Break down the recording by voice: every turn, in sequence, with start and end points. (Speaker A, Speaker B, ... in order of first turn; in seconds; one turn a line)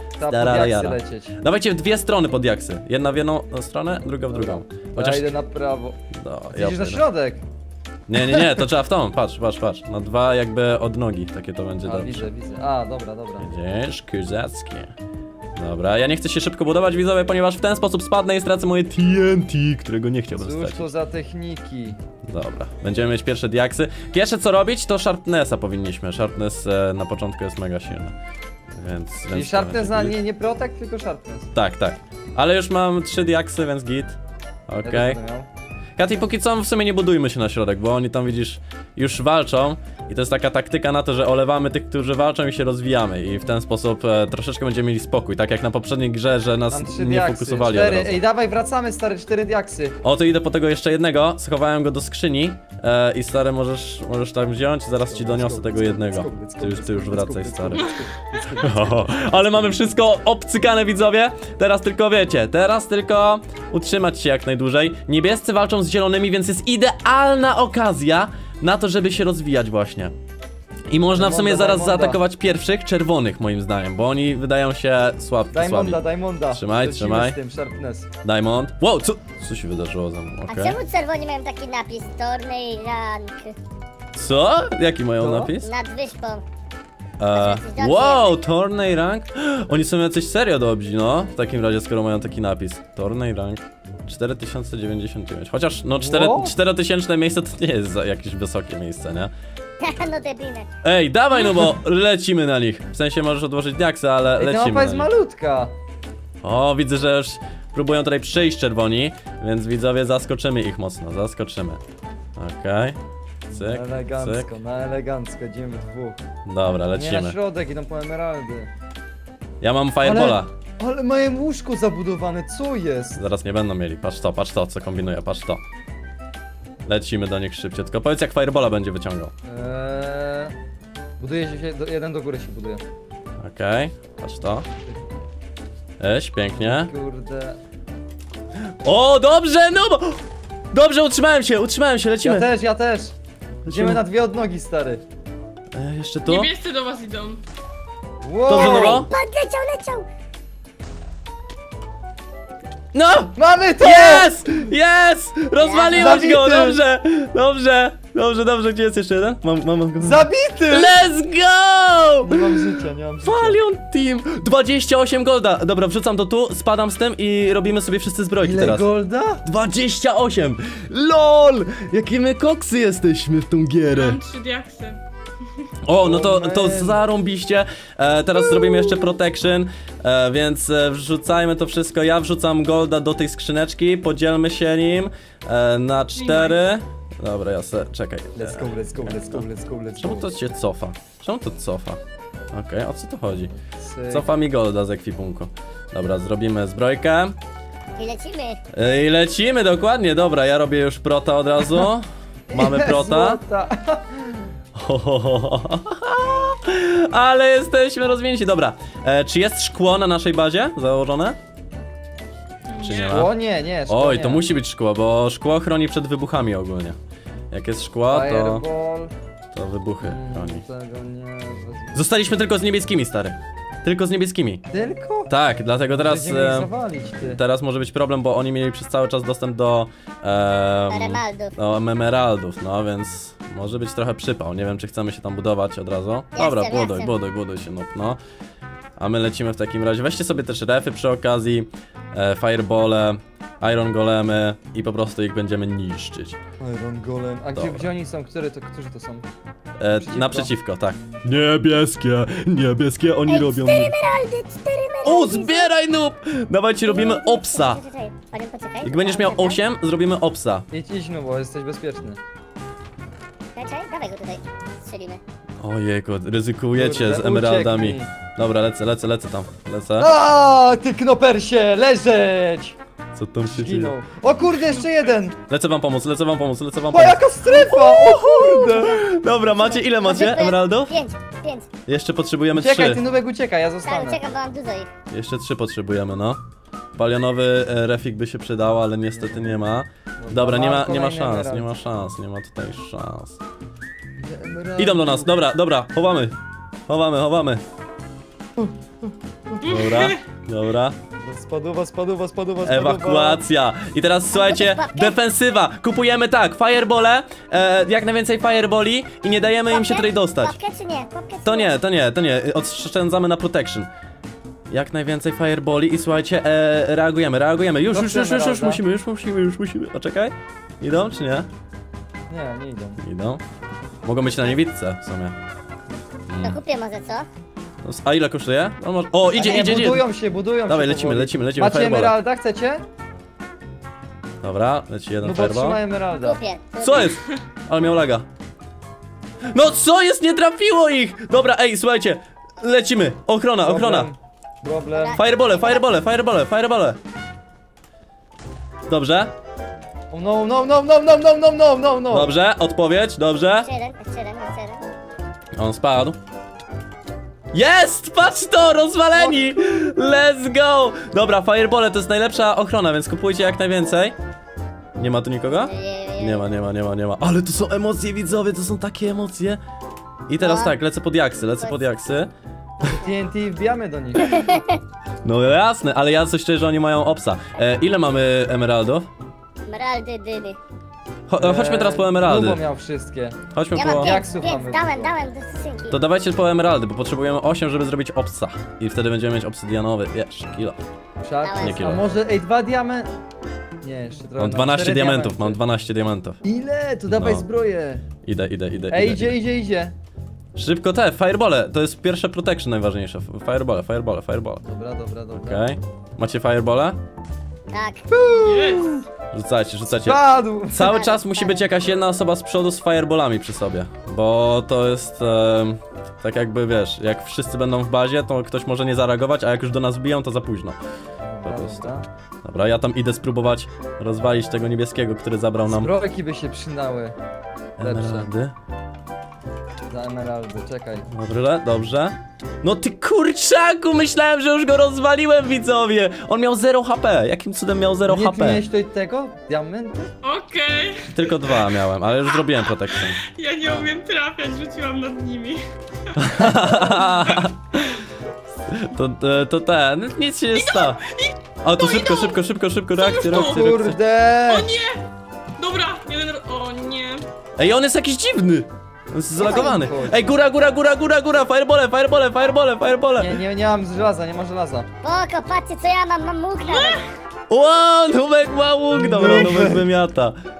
Speaker A: 0.2-1.3
Speaker B: 0.3-5.3
Speaker A: 4.3-6.0
Speaker B: 6.1-7.0
Speaker A: 6.5-7.4
Speaker B: 8.1-12.2
Speaker A: 11.8-13.5
Speaker B: 13.4-14.9
Speaker B: 15.6-20.9
Speaker A: 20.3-22.0
Speaker B: 22.2-28.1
Speaker B: 28.7-30.2
Speaker A: 29.3-31.5
Speaker B: 31.5-34.2
Speaker B: 34.7-35.2
Speaker A: 34.8-35.5
Speaker B: 36.0-48.2
Speaker A: 46.7-50.0
Speaker B: 50.0-57.9
Speaker A: 55.0-59.3
Speaker B: 58.6-70.1
Speaker B: 70.9-76.0
Speaker A: 71.1-72.2
Speaker A: 75.5-78.1
Speaker B: 76.5-77.4
Speaker B: 78.2-80.8
Speaker C: 80.5-83.5
Speaker B: 84.1-85.7
Speaker A: 85.2-85.5
Speaker C: 85.6-86.4
Speaker B: 87.2-99.3
Speaker C: 87.3-88.4
Speaker A: 96.0-96.6
Speaker C: 99.8-100.7
Speaker B: 100.8-105.1
Speaker A: 104.3-105.7
Speaker B: 106.4-111.8
Speaker B: 112.4-113.0
Speaker B: 113.5-114.5
Speaker A: 113.7-116.2
Speaker B: 116.5-117.4
Speaker A: 116.9-118.7
Speaker B: 119.6-120.5
Speaker A: 120.0-123.2
Speaker B: 123.2-125.6
Speaker B: 126.8-129.3
Speaker A: 129.4-130.5
Speaker A: 131.2-132.8
Speaker B: 133.4-134.7
Speaker B: 136.0-136.9
Speaker A: 136.5-137.6
Speaker B: 138.8-142.4
Speaker A: 142.2-145.0
Speaker B: 143.7-144.0
Speaker B: 145.7-146.5
Speaker D: 146.2-147.4
Speaker A: 148.2-149.0
Speaker B: 148.5-149.1
Speaker C: 148.5-150.1
Speaker B: 152.9-162.7
Speaker A: 153.3-154.3
Speaker C: 155.6-156.2
Speaker A: 155.9-156.8
Speaker A: 160.0-160.9
Speaker A: 162.2-163.6
Speaker B: 163.2-168.9
Speaker A: 168.4-169.4
Speaker B: 169.4-174.2
Speaker D: 173.9-175.0
Speaker B: 175.8-189.4
Speaker A: 176.0-177.0
Speaker D: 186.2-186.6
Speaker A: 188.3-190.3
Speaker B: 190.0-192.0
Speaker B: 192.5-193.5
Speaker A: 193.6-194.3
Speaker B: 194.1-197.3
Speaker C: 198.0-198.6
Speaker B: 198.7-203.4
Speaker A: 202.5-204.5
Speaker B: 204.8-211.4
Speaker D: 212.7-213.2
Speaker B: 212.8-213.3
Speaker A: 213.1-214.4
Speaker B: 213.9-217.0
Speaker B: 217.5-218.6
Speaker A: 218.1-219.1
Speaker B: 219.5-220.6
Speaker A: 220.0-222.0
Speaker B: 221.9-224.6
Speaker A: 224.7-225.3
Speaker B: 225.3-226.7
Speaker A: 225.9-227.4
Speaker B: 227.2-238.2
Speaker C: 230.9-231.5
Speaker C: 236.3-237.1
Speaker B: 239.0-246.4
Speaker A: 246.6-249.3
Speaker B: 247.5-247.9
Speaker B: 249.8-253.9
Speaker A: 250.0-250.5
Speaker C: 253.3-255.7
Speaker B: 255.0-257.8
Speaker C: 256.8-259.6
Speaker B: 258.8-260.6
Speaker A: 260.7-262.2
Speaker C: 263.5-265.2
Speaker B: 265.6-270.1
Speaker A: 266.7-268.1
Speaker A: 270.0-272.8
Speaker B: 273.1-273.9
Speaker A: 273.5-275.4
Speaker B: 275.5-281.0
Speaker A: 276.9-279.0
Speaker C: 279.5-281.7
Speaker B: 281.9-283.0
Speaker A: 282.5-284.2
Speaker C: 283.8-284.9
Speaker B: 285.1-286.4
Speaker B: 286.9-293.4
Speaker A: 289.1-289.4
Speaker A: 290.2-291.7
Speaker A: 294.2-295.3
Speaker B: 294.8-296.4
Speaker B: 296.9-297.6
Speaker A: 298.6-299.7
Speaker B: 299.6-300.9
Speaker D: 299.6-300.2
Speaker A: 301.2-303.4
Speaker B: 302.6-310.6
Speaker C: 304.3-305.1
Speaker C: 309.7-311.7
Speaker B: 311.4-313.9
Speaker B: 314.7-321.5
Speaker A: 317.9-318.8
Speaker A: 322.3-323.0
Speaker B: 323.0-323.4
Speaker B: 324.0-325.4
Speaker B: 326.3-326.6
Speaker C: 326.4-327.3
Speaker B: 327.8-330.0
Speaker A: 329.3-332.8
Speaker B: 330.7-332.2
Speaker B: 334.4-335.8
Speaker A: 335.2-336.4
Speaker C: 336.2-337.1
Speaker B: 336.8-338.2
Speaker B: 339.4-344.1
Speaker A: 343.6-345.2
Speaker C: 344.9-345.9
Speaker B: 345.1-347.0
Speaker B: 348.9-349.3
Speaker A: 350.1-352.3
Speaker B: 352.1-353.7
Speaker C: 353.6-354.8
Speaker B: 355.6-356.2
Speaker B: 357.5-364.1
Speaker B: 365.0-369.6
Speaker C: 365.5-366.4
Speaker B: 370.3-372.3
Speaker C: 370.4-370.7
Speaker C: 372.8-373.1
Speaker A: 372.9-374.6
Speaker C: 374.2-374.8
Speaker B: 375.2-379.1
Speaker C: 379.6-380.6
Speaker B: 381.3-382.6
Speaker A: 381.4-385.1
Speaker B: 383.5-384.1
Speaker C: 383.7-386.0
Speaker B: 385.9-390.8
Speaker A: 391.2-393.1
Speaker C: 391.4-392.0
Speaker B: 391.5-392.0
Speaker A: 393.8-395.6
Speaker B: 394.4-396.4
Speaker A: 396.4-398.0
Speaker B: 397.1-397.4
Speaker B: 398.2-399.4
Speaker A: 398.9-399.9
Speaker B: 400.6-404.6
Speaker A: 404.6-405.6
Speaker B: 405.3-407.0
Speaker C: 407.7-408.1
Speaker A: 408.1-409.1
Speaker D: 408.4-409.0
Speaker B: 409.3-420.8
Speaker A: 409.9-410.9
Speaker C: 410.8-411.7
Speaker A: 421.3-422.1
Speaker B: 421.4-421.9
Speaker B: 422.4-425.9
Speaker A: 425.7-427.1
Speaker B: 427.8-428.5
Speaker A: 427.8-428.3
Speaker A: 429.9-431.1
Speaker B: 431.1-438.6
Speaker A: 438.1-440.1
Speaker D: 440.2-441.7
Speaker B: 441.1-443.2
Speaker D: 442.3-445.6
Speaker B: 446.2-447.6
Speaker A: 446.5-446.8
Speaker D: 447.3-447.9
Speaker B: 448.7-451.0
Speaker D: 450.5-452.4
Speaker B: 451.6-454.0
Speaker D: 452.9-453.6
Speaker A: 453.2-454.8
Speaker D: 454.4-455.0
Speaker D: 455.6-457.2
Speaker B: 457.6-463.4
Speaker A: 459.3-460.3
Speaker A: 463.2-464.9
Speaker C: 465.0-467.0
Speaker D: 466.6-467.1
Speaker B: 467.5-470.4
Speaker A: 468.9-469.9